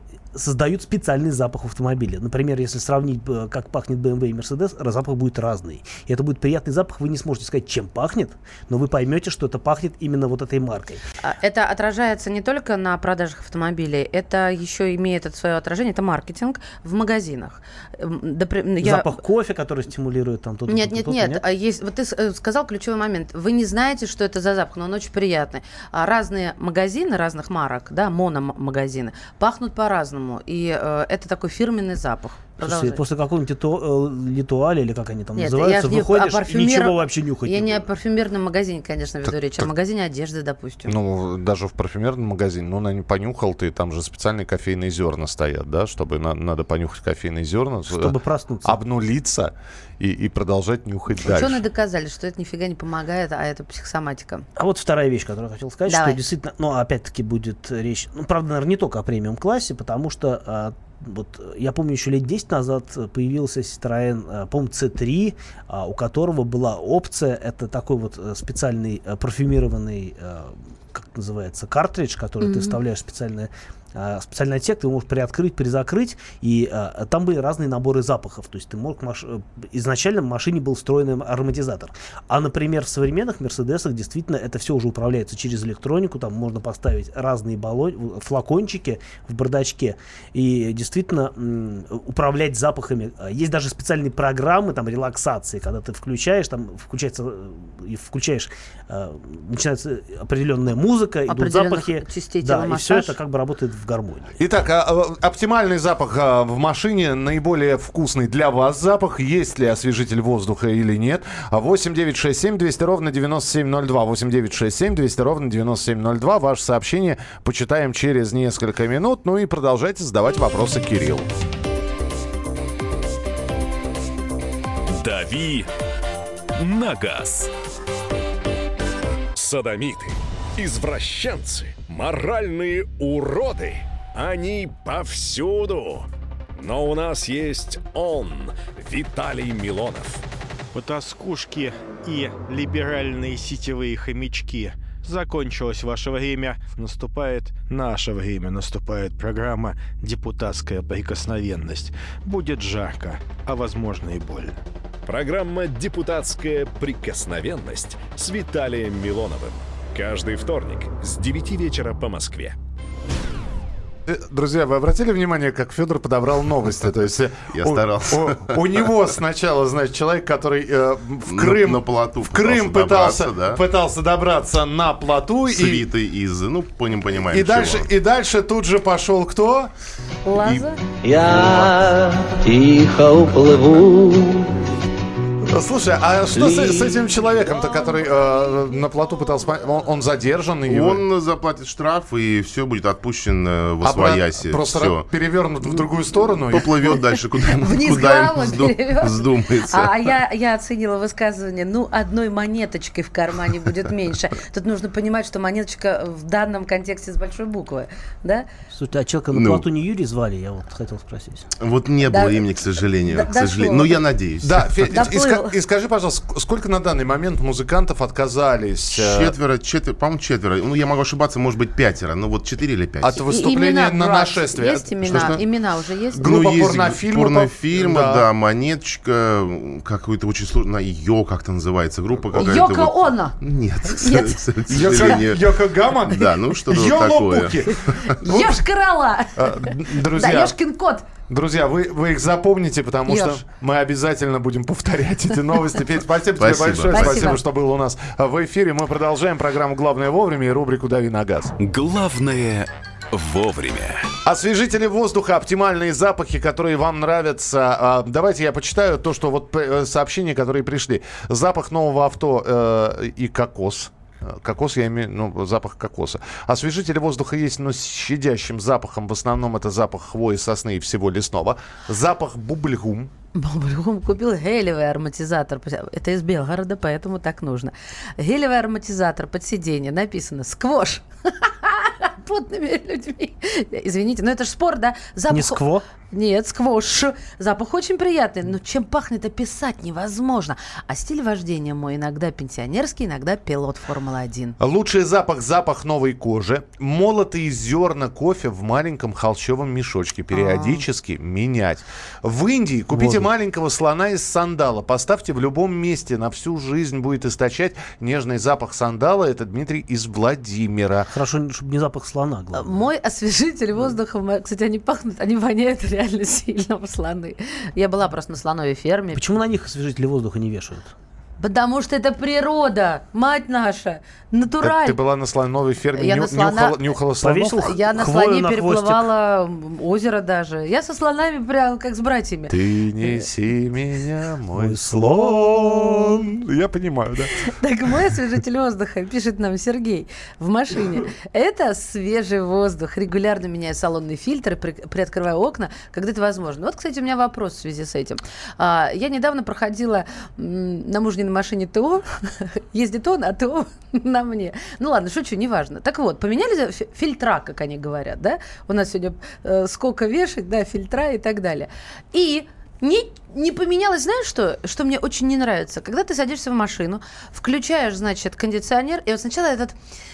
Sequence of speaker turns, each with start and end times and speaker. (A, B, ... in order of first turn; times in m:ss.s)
0:00.3-0:11.0 A
0:11.2-0:19.2 B
0:18.8-0:21.4 A
0:20.7-0:33.0 B
0:32.6-0:37.9 A
0:35.4-0:40.9 B
0:40.9-0:51.6 C
0:47.9-0:48.8 A
0:51.2-0:54.5 B
0:54.6-1:44.4 A
0:55.9-0:56.2 B
1:12.4-1:12.8 B
1:41.3-1:43.2 B
1:44.4-2:01.3 C
2:04.9-2:05.7 D
2:06.6-2:07.5 D
2:09.4-2:20.2 E
2:20.7-2:34.6 F
2:35.1-2:42.6 E
2:44.1-2:55.9 C
2:47.5-2:49.0 G
2:51.3-2:53.6 G
2:55.5-2:57.9 G
2:57.3-2:59.7 C
3:00.2-3:00.8 B
3:01.0-3:04.5 H
3:05.5-3:11.0 C
3:06.4-3:07.1 H
3:10.7-3:15.1 G
3:13.8-3:17.0 C
3:15.6-3:20.0 G
3:17.6-3:28.5 B
3:28.7-3:31.5 A
3:29.3-3:29.7 G
3:31.6-3:35.0 G
3:32.1-3:34.0 B
3:34.4-3:39.4 C
3:34.9-3:35.6 B
3:38.9-3:43.1 G
3:43.0-3:45.4 C
3:43.2-3:46.2 B
3:46.2-3:48.3 C
3:46.2-3:58.2 G
3:52.4-3:53.4 B
3:54.0-3:54.4 B
3:54.7-3:58.6 C
3:58.2-4:01.0 B
3:59.4-4:00.6 C
4:01.3-4:11.5 C
4:03.1-4:03.4 B
4:06.4-4:07.4 G
4:06.9-4:07.4 B
4:11.6-4:14.1 D
4:14.2-4:33.1 C
4:33.3-4:54.6 B
4:45.3-4:45.8 A
4:54.6-5:11.1 C
5:00.3-5:00.8 B
5:02.9-5:03.3 A
5:11.1-5:12.9 A
5:12.5-5:19.4 B
5:19.1-5:21.0 A
5:21.4-5:25.0 B
5:24.6-5:27.7 C
5:26.0-5:26.9 B
5:27.2-5:29.1 A
5:27.6-5:33.3 B
5:32.5-5:37.3 C
5:34.5-5:36.2 A
5:37.4-6:09.8 B